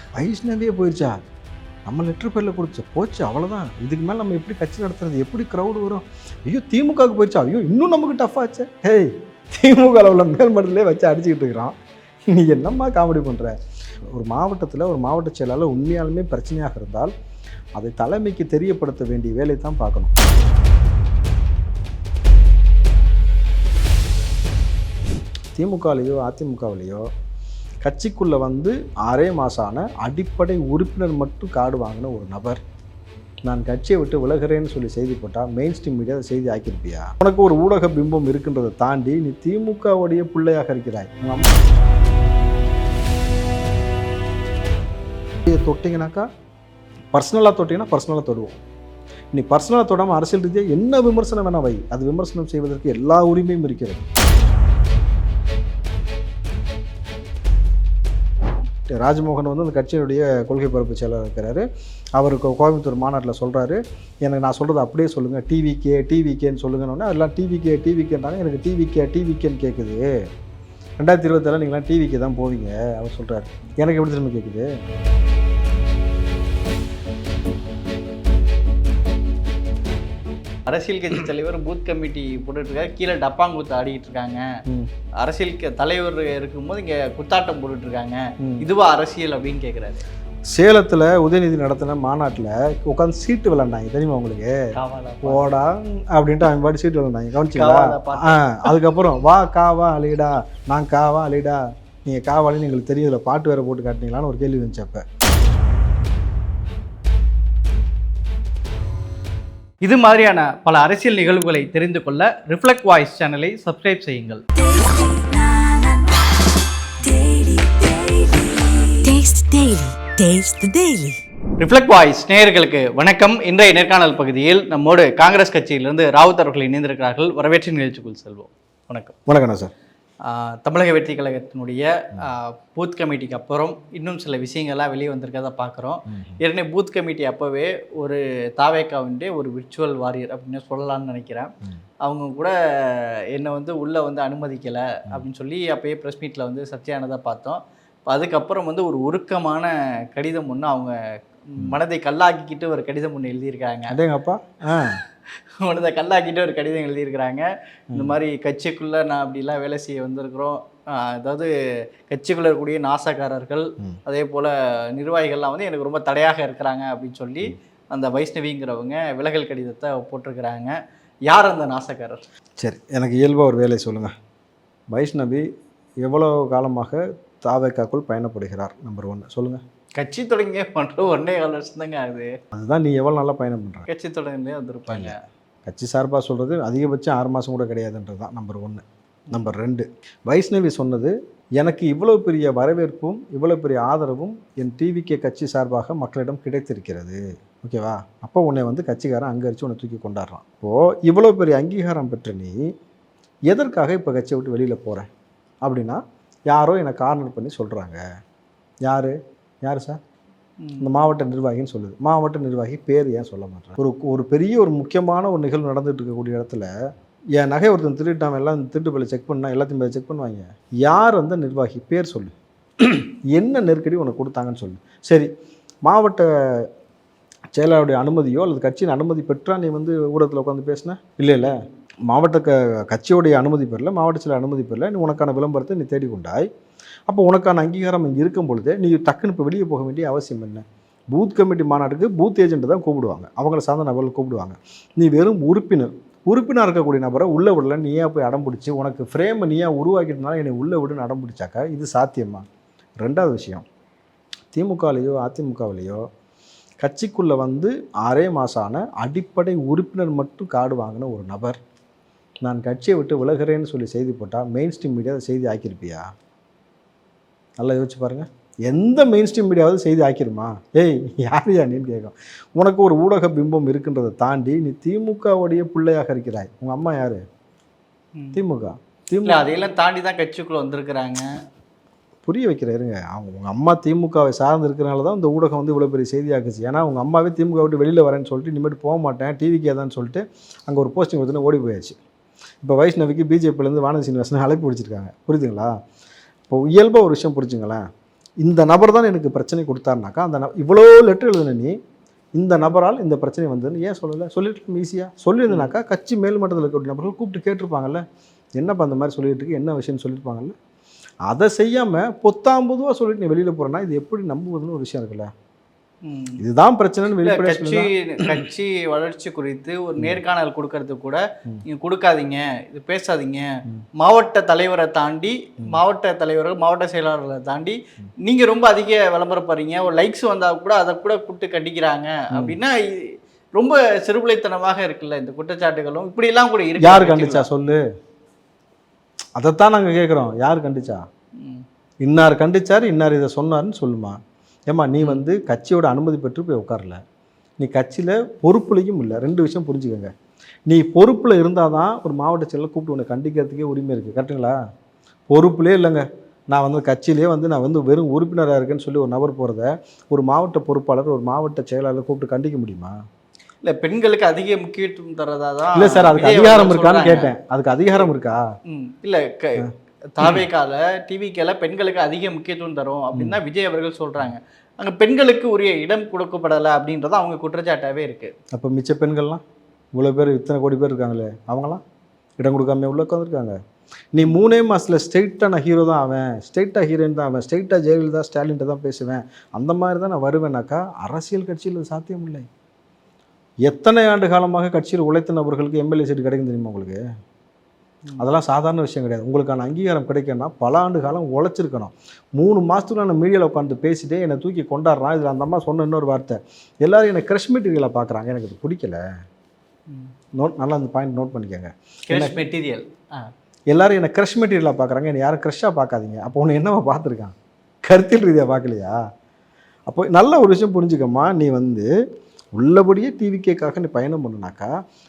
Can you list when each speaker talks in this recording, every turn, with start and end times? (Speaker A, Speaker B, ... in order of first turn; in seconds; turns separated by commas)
Speaker A: 0.2-1.1, Speaker A: 1.9-11.7, Speaker A: 12.3-13.5, Speaker A: 14.1-17.1, Speaker A: 17.8-20.1, Speaker A: 25.5-27.1, Speaker A: 27.8-32.6, Speaker A: 33.4-41.4, Speaker A: 45.5-46.2, Speaker A: 47.1-48.6, Speaker A: 49.3-54.0, Speaker A: 58.9-61.6, Speaker A: 62.1-70.1, Speaker A: 71.0-74.7, Speaker B: 80.7-84.4, Speaker B: 85.2-90.0, Speaker A: 88.4-88.7, Speaker A: 90.5-94.5, Speaker B: 94.8-95.5, Speaker A: 95.2-105.0, Speaker B: 97.5-98.7, Speaker B: 109.8-114.4, Speaker B: 115.1-115.8, Speaker B: 117.0-118.9, Speaker C: 119.0-121.2, Speaker B: 121.6-129.1, Speaker A: 129.2-129.7, Speaker B: 130.2-141.5, Speaker A: 136.1-136.4, Speaker B: 142.0-150.9, Speaker B: 151.5-153.9, Speaker A: 153.9-155.0, Speaker B: 155.6-157.4, Speaker A: 157.9-158.2, Speaker B: 158.0-161.5, Speaker B: 162.1-170.7, Speaker B: 171.3-172.2, Speaker A: 172.6-174.1, Speaker A: 174.9-175.4, Speaker A: 176.0-179.6, Speaker B: 180.0-182.3, Speaker A: 182.5-183.9, Speaker B: 183.9-185.2, Speaker A: 184.9-185.1, Speaker A: 185.7-202.6, Speaker A: 203.5-205.1, Speaker A: 205.6-208.0, Speaker A: 208.8-210.0, Speaker B: 210.6-210.9, Speaker A: 210.8-216.7, Speaker A: 217.3-225.3, Speaker A: 225.8-226.7, Speaker A: 227.5-231.5, Speaker A: 232.1-236.4, Speaker A: 237.1-252.4, Speaker A: 253.0-253.6, Speaker A: 254.5-256.0, Speaker A: 256.8-261.6, Speaker A: 262.4-266.0, Speaker A: 267.6-277.2, Speaker B: 278.1-278.4, Speaker A: 278.3-279.4, Speaker B: 279.2-281.3, Speaker A: 282.2-291.9, Speaker A: 292.6-295.7, Speaker A: 296.5-297.8, Speaker A: 298.4-301.7, Speaker A: 302.4-308.0, Speaker A: 308.6-310.5, Speaker A: 311.2-315.3, Speaker B: 316.0-316.4, Speaker A: 316.4-318.4, Speaker B: 317.1-323.5, Speaker B: 324.0-337.5, Speaker A: 332.3-332.6, Speaker A: 336.8-337.8, Speaker A: 339.4-341.0, Speaker B: 341.4-341.6, Speaker A: 342.0-344.1, Speaker A: 344.7-347.0, Speaker A: 347.6-350.1, Speaker A: 350.7-354.6, Speaker A: 355.3-362.9, Speaker B: 363.6-367.3, Speaker A: 365.7-368.4, Speaker B: 368.7-378.3, Speaker A: 378.5-379.4, Speaker A: 379.9-381.8, Speaker A: 382.4-383.5, Speaker A: 384.1-392.4, Speaker A: 393.6-397.0, Speaker A: 398.2-409.0, Speaker A: 410.4-412.4, Speaker B: 412.1-413.3, Speaker A: 413.7-418.9, Speaker A: 419.9-421.9, Speaker A: 422.5-424.7